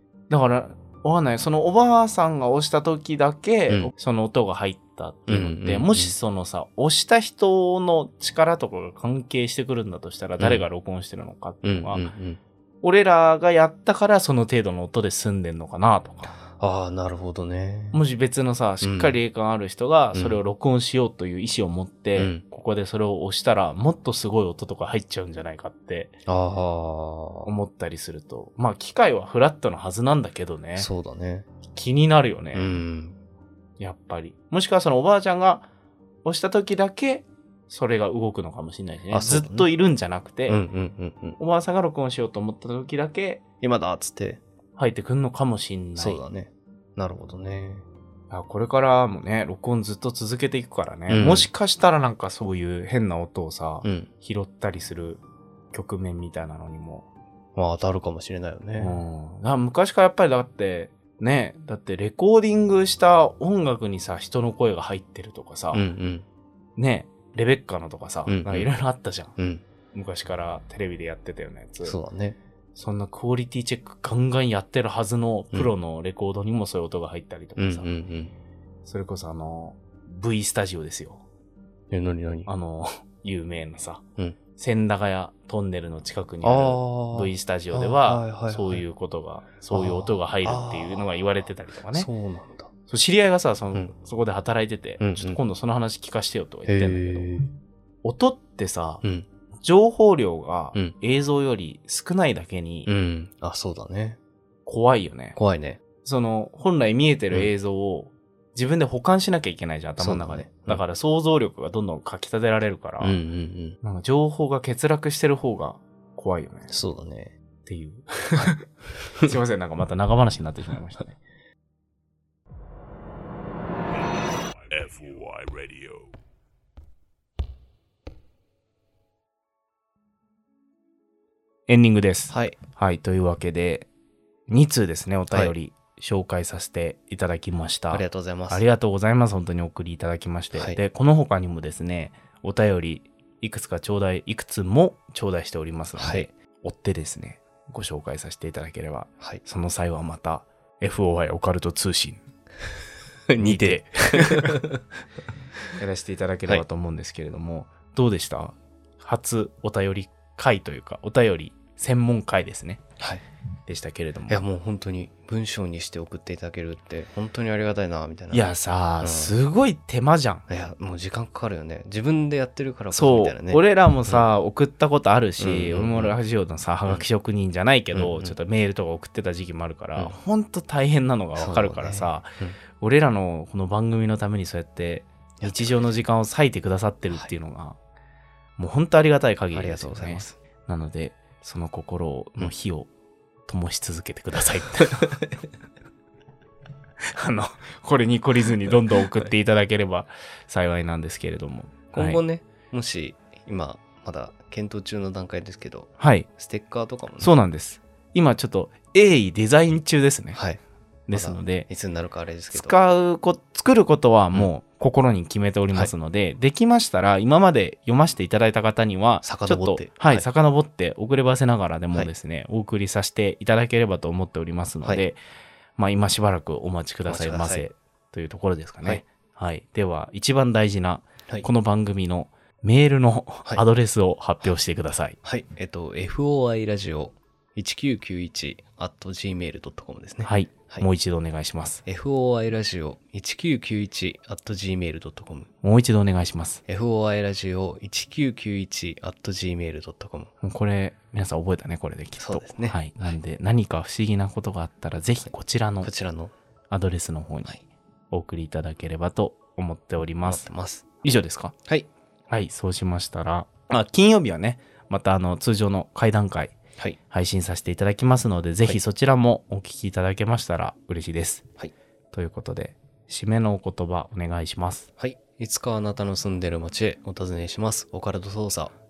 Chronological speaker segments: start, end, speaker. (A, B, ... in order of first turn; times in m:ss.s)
0:00.3-0:12.0 A
0:05.3-0:06.1 B
0:10.4-0:10.6 B
0:11.6-0:12.4 B
0:12.8-0:16.3 A
0:16.5-0:18.0 B
0:17.9-0:26.1 A
0:18.8-0:19.2 B
0:20.1-0:20.4 B
0:22.2-0:22.4 B
0:26.2-0:27.5 B
0:27.4-0:30.9 A
0:30.8-0:31.5 B
0:31.7-0:32.8 A
0:32.5-0:33.2 B
0:33.8-0:35.7 A
0:36.2-0:40.6 A
0:39.1-0:39.7 B
0:40.5-0:41.4 B
0:41.4-0:43.4 A
0:43.6-0:44.4 B
0:44.8-0:46.2 A
0:46.0-0:47.8 B
0:48.3-0:57.1 A
0:51.1-0:51.5 B
0:53.8-0:54.1 B
0:57.5-0:59.0 B
0:58.8-1:05.8 A
1:05.7-1:06.2 B
1:06.8-1:09.3 A
1:08.3-1:08.7 B
1:09.4-1:09.6 B
1:09.9-1:12.0 A
1:11.8-1:12.4 B
1:12.7-1:17.9 A
1:17.6-1:18.3 B
1:18.8-1:21.2 A
1:21.9-1:22.5 B
1:22.5-1:24.0 A
1:24.6-1:32.1 A
1:26.4-1:28.8 B
1:29.7-1:31.1 B
1:31.9-1:32.7 B
1:32.9-1:37.3 A
1:35.0-1:35.4 B
1:36.7-1:37.5 B
1:38.0-1:39.0 A
1:39.0-1:39.3 B
1:39.6-1:42.9 A
1:42.9-1:44.2 B
1:44.6-1:45.4 A
1:45.4-1:45.8 B
1:46.0-1:53.2 A
1:50.0-1:50.8 B
1:53.0-1:53.8 B
1:53.8-1:56.7 A
1:56.7-1:57.4 B
1:57.6-1:58.6 A
1:59.2-2:01.2 A
2:04.1-2:06.1 C
2:11.7-2:13.9 A
2:12.3-2:12.6 B
2:14.5-2:32.2 A
2:17.9-2:18.6 B
2:26.0-2:26.3 B
2:33.3-2:34.8 B
2:33.4-2:34.6 A
2:35.8-2:42.8 A
2:43.7-2:44.4 A
2:44.3-2:48.5 B
2:48.3-2:50.4 A
2:49.0-2:49.3 B
2:50.5-2:54.3 B
2:52.9-3:07.8 A
2:55.4-2:56.1 B
2:57.9-2:58.3 B
3:01.4-3:02.6 B
3:05.4-3:06.0 B
3:08.6-3:12.9 A
3:09.5-3:10.3 B
3:13.5-3:15.2 A
3:17.0-3:22.2 A
3:21.9-3:27.3 B
3:26.0-3:26.3 A
3:27.2-3:30.4 A
3:30.3-3:30.6 B
3:31.1-3:31.7 A
3:31.1-3:32.7 B
3:32.5-3:45.2 A
3:39.2-3:40.3 B
3:45.8-3:55.2 A
3:47.0-3:47.6 B
3:55.2-4:00.8 B
4:00.2-4:01.8 A
4:01.8-4:05.5 B
4:05.6-4:06.6 A
4:06.7-4:10.3 B
4:10.4-4:15.9 A
4:12.2-4:13.1 B
4:15.8-4:16.3 B
4:16.7-4:20.5 A
4:20.2-4:21.0 B
4:21.0-4:21.5 A
4:22.3-4:26.6 A
4:27.1-4:31.4 A
4:32.1-4:34.9 A
4:35.0-4:38.7 B